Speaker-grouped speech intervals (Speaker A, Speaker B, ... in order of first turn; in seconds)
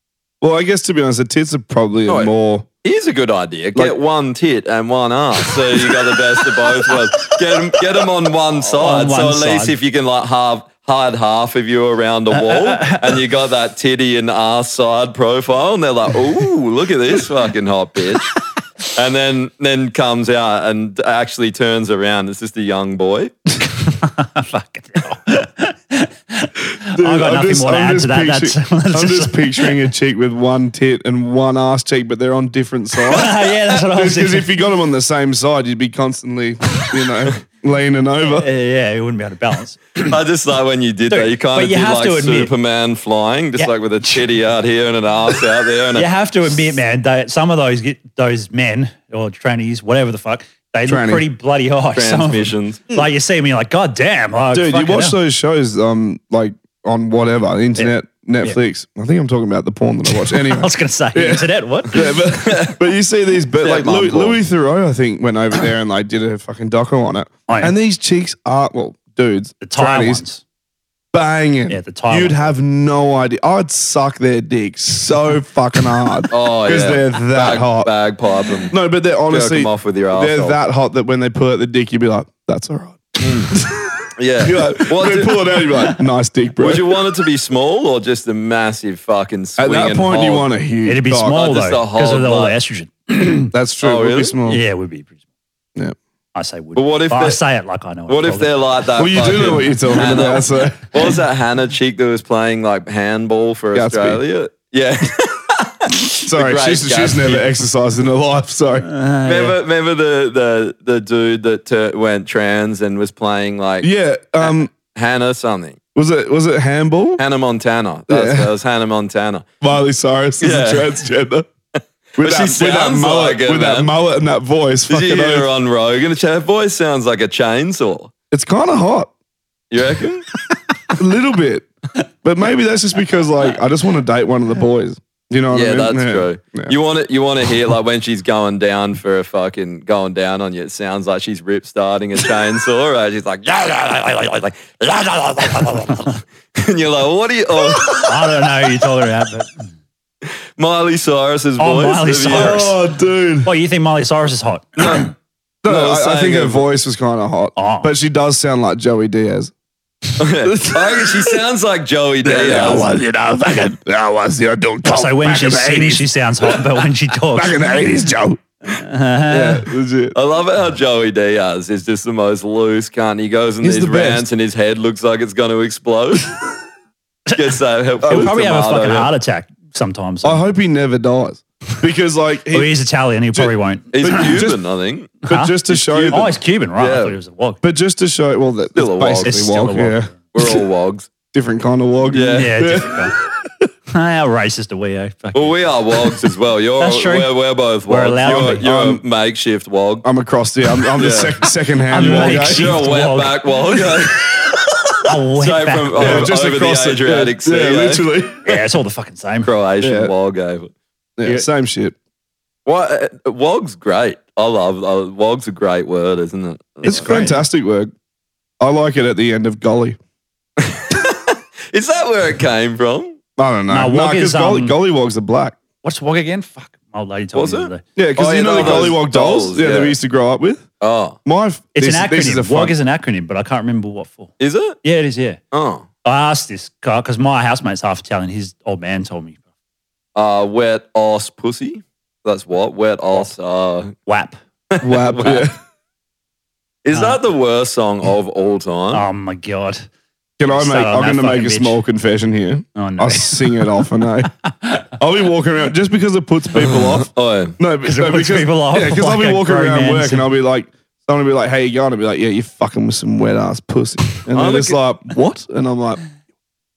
Speaker A: 0.4-2.7, 26.9-38.5, 50.9-51.2, 54.5-70.2, 71.1-77.9, 78.7-87.0, 89.6-91.4, 93.5-94.6, 99.0-100.9, 103.7-104.2, 106.2-108.9, 113.8-114.7, 116.0-117.2, 118.1-118.5, 119.6-121.5, 122.2-125.5, 128.3-129.1, 131.0-131.7, 132.2-136.8, 152.3-153.5, 155.6-159.5, 160.4-161.4, 162.2-168.4, 169.3-170.2, 173.6-174.3, 178.0-178.3, 180.2-182.7, 183.3-184.6, 185.2-186.3, 187.6-190.5, 191.3-193.7, 198.5-199.0, 200.0-202.8, 206.0-208.6, 209.8-210.1, 211.2-211.9, 216.8-217.9, 218.6-220.0, 223.4-225.6, 228.0-230.7, 231.2-232.8, 244.8-245.6, 250.4-254.3, 255.0-266.0
Speaker B: 2.1-2.3, 2.8-18.3, 18.9-23.3, 40.0-46.1, 52.0-52.9, 62.4-62.8, 63.6-64.4, 76.3-78.8, 79.3-80.6, 83.2-83.5, 84.2-85.4, 86.6-90.5, 91.3-92.5, 93.8-94.4, 96.8-97.4, 98.1-107.5, 109.2-115.8, 117.2-119.5, 120.4-120.9, 121.8-123.9, 124.9-128.1, 129.7-130.2, 135.5-147.9, 150.2-152.7, 154.8-155.1, 155.7-156.7, 160.2-162.9, 170.1-176.3, 177.3-179.1, 183.9-185.2, 186.8-187.2, 188.8-189.4, 190.3-191.1, 192.1-192.6, 195.3-200.1, 201.0-201.4, 202.0-204.2, 205.3-208.1, 209.4-210.7, 212.7-217.1, 220.6-223.2, 227.3-230.0, 230.8-231.2, 234.4-234.8, 235.5-235.9, 240.2-243.9, 244.8-245.4, 246.8-249.0, 256.6-257.6, 264.3-264.8
Speaker C: 8.7-9.8, 12.3-13.2, 23.8-29.8, 33.1-34.5, 38.2-40.1, 41.1-42.5, 43.6-44.2, 46.0-55.2, 57.8-58.6, 60.1-62.1, 67.5-67.7, 69.6-70.4, 71.7-72.5, 90.8-93.5, 94.5-95.2, 96.3-98.6, 108.8-109.6, 147.9-149.6, 151.6-152.8, 153.4-155.1, 157.6-157.9, 164.8-167.7, 168.7-169.7, 178.0-180.4, 182.5-184.4, 185.2-187.6, 189.3-190.1, 192.3-193.1, 193.9-195.6, 196.8-197.3, 197.9-198.6, 201.9-203.5, 205.1-206.3, 208.5-209.5, 216.8-217.4, 223.7-224.8, 225.8-227.8, 228.6-228.9, 231.8-235.4, 236.1-239.4, 244.1-244.4, 246.9-247.2, 248.9-249.9, 250.5-251.8, 252.8-253.8, 254.5-254.8, 257.9-260.3